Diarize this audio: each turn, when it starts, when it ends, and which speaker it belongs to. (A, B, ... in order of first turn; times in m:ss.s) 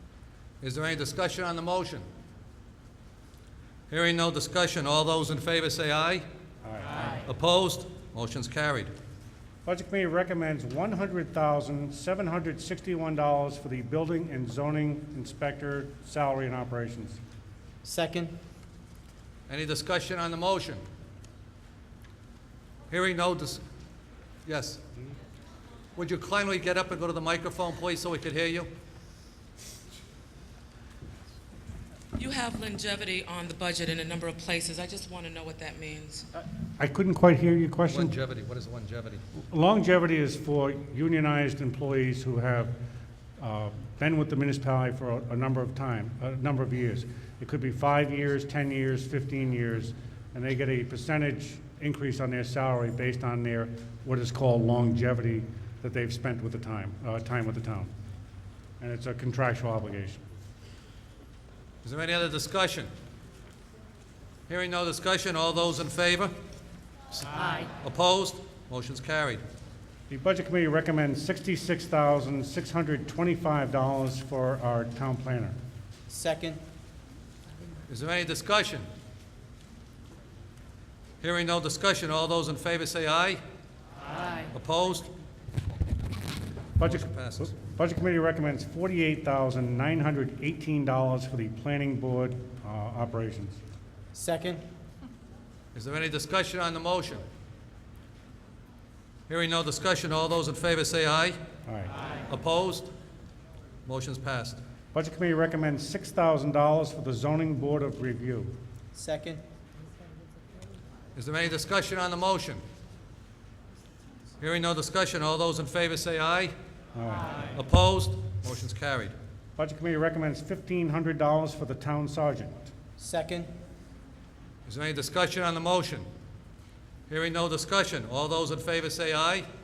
0:00.6-0:02.0 A
0:03.9-0:06.2 A
0:06.6-0:07.1 B
0:07.2-0:08.9 A
0:09.6-0:17.2 B
0:17.8-0:18.3 C
0:19.5-0:20.8 A
0:22.9-0:23.6 A
0:24.4-0:24.8 A
0:26.0-0:28.7 A
0:32.2-0:36.2 D
0:36.8-0:38.1 B
0:37.9-0:39.2 A
0:39.5-0:42.7 B
0:43.4-0:57.9 B
0:58.8-1:00.2 B
1:01.8-1:02.9 A
1:04.5-1:06.3 A
1:07.1-1:09.4 A
1:10.1-1:15.5 B
1:16.1-1:16.6 C
1:17.9-1:18.8 A
1:21.2-1:23.4 A
1:24.5-1:25.1 A
1:26.8-1:33.6 B
1:26.8-1:27.6 A
1:34.1-1:34.6 C
1:35.7-1:37.2 A
1:39.3-1:41.4 A
1:41.7-1:41.9 B
1:42.3-1:42.9 A
1:43.8-1:44.6 A
1:44.9-1:48.5 B
1:48.9-1:49.4 C
1:51.2-1:52.6 A
1:54.4-1:56.5 A
1:56.9-1:57.4 B
1:57.5-1:59.1 A
1:59.6-2:02.7 B
2:03.0-2:03.5 C
2:04.6-2:06.1 A
2:07.1-2:09.4 A